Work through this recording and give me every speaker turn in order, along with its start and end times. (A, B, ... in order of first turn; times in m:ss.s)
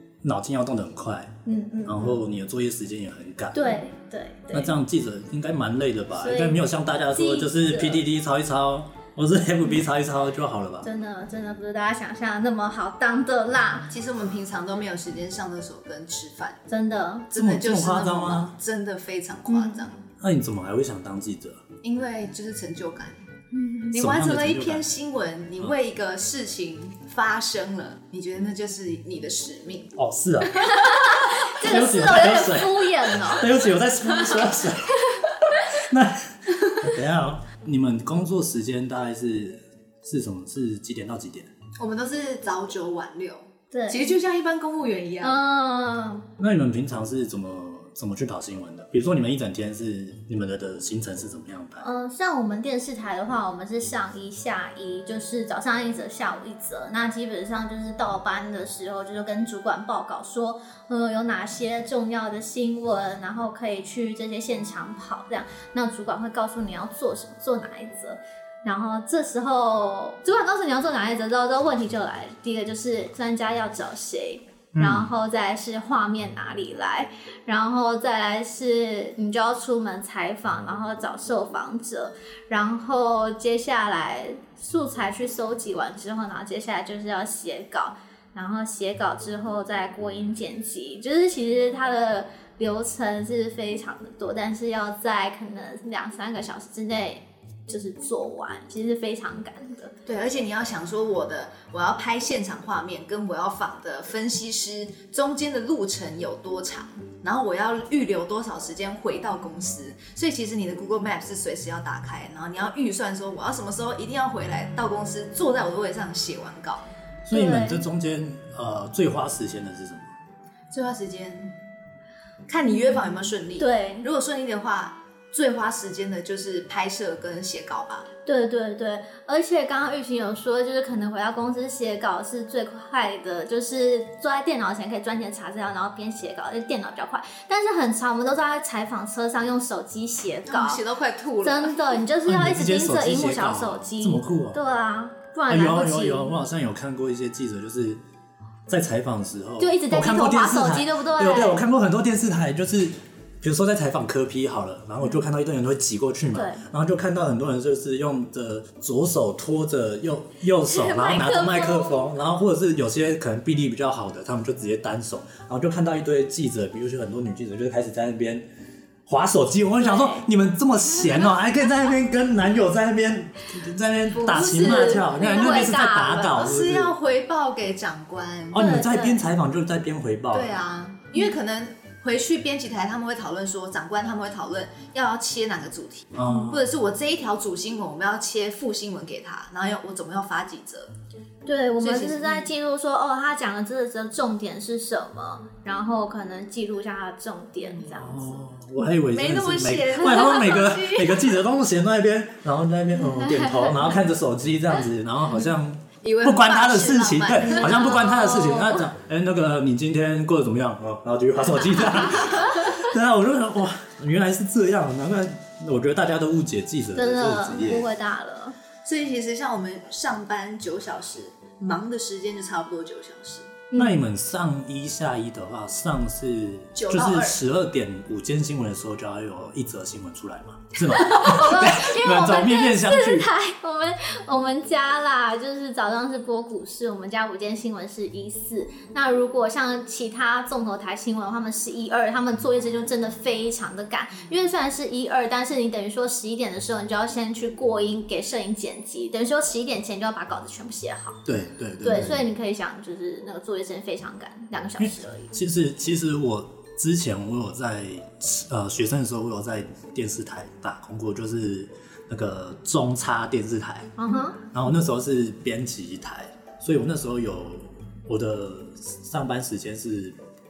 0:00.2-0:03.8 A
0:01.4-0:02.2 B
0:03.5-0:04.7 B
0:04.5-0:10.9 A
0:06.2-0:06.6 B
0:07.1-0:08.0 B
0:10.8-0:13.9 B
0:13.9-0:16.6 C
0:16.7-0:17.3 B
0:17.3-0:20.0 C
0:17.3-0:18.5 A
0:19.5-0:19.8 B
0:20.2-0:21.6 A
0:21.8-0:29.9 C
0:23.9-0:24.9 A
0:30.0-0:30.7 A
0:30.7-0:33.5 B
0:31.6-0:35.0 A
0:35.7-0:41.5 A
0:41.8-0:45.4 C
0:43.7-0:44.1 B
0:45.2-0:46.3 B
0:46.4-0:51.9 A
0:51.8-1:39.9 B
1:14.7-1:15.1 A
1:40.0-1:56.9 C
1:57.2-2:00.1 A
1:57.3-1:57.8 B
2:00.7-2:01.6 C
2:02.5-2:08.1 C
2:03.6-2:04.1 B
2:08.2-2:20.8 B
2:20.4-2:22.0 C
2:21.4-2:26.3 B
2:22.2-2:24.6 A
2:25.5-2:28.0 A
2:28.7-2:48.4 A
2:29.6-2:31.6 B
2:36.3-2:36.6 B
2:40.7-2:42.0 B
2:49.0-2:56.9 A
2:49.8-2:50.2 B
2:54.1-2:55.2 C
2:54.4-2:56.4 B
2:56.3-2:58.6 C
2:58.5-3:00.7 A
2:58.5-2:59.3 B
3:00.3-3:10.9 C
3:06.1-3:06.7 A
3:11.4-3:18.4 B
3:11.8-3:12.5 C
3:17.7-3:18.0 C
3:17.9-3:37.9 A
3:19.1-3:21.3 C
3:23.2-3:23.7 B
3:26.0-3:27.9 C
3:27.5-3:28.8 B
3:37.0-3:38.6 B
3:38.8-3:43.6 C
3:43.7-3:44.0 B
3:43.7-3:53.3 A
3:46.7-3:47.4 C
3:51.0-4:11.2 B
4:11.2-4:12.2 A
4:11.8-4:15.3 B
4:14.8-4:23.9 A
4:24.0-4:24.4 B
4:24.5-4:30.2 A